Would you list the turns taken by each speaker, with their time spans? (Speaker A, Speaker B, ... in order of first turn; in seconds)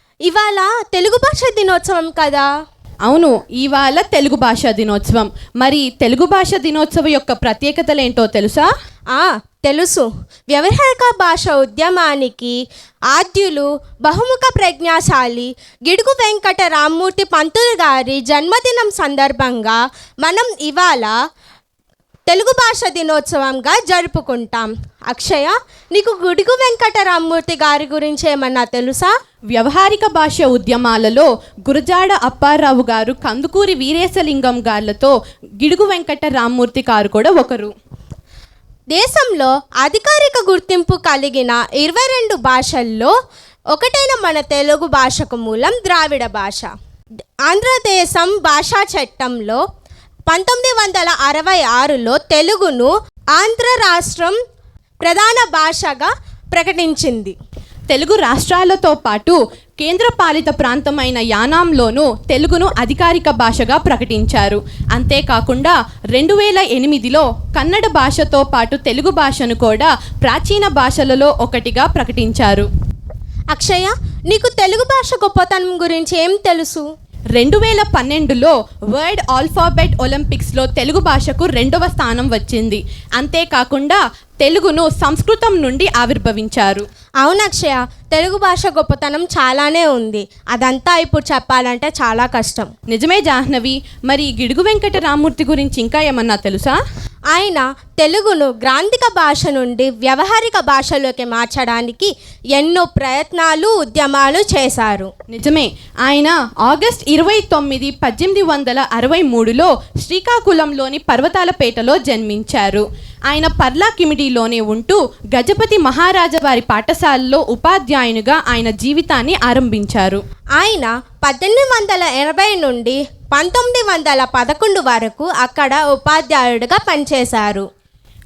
Speaker A: 0.3-2.5, 9.1-12.6, 13.1-21.1, 22.3-29.1, 38.9-43.1, 43.7-46.7, 47.5-49.6, 50.3-54.3, 55.0-57.3, 73.5-76.9, 87.2-92.7, 97.3-105.1, 120.6-127.7
Speaker B: 3.0-8.7, 29.5-37.7, 57.9-72.7, 77.3-86.8, 92.9-96.8, 105.3-120.2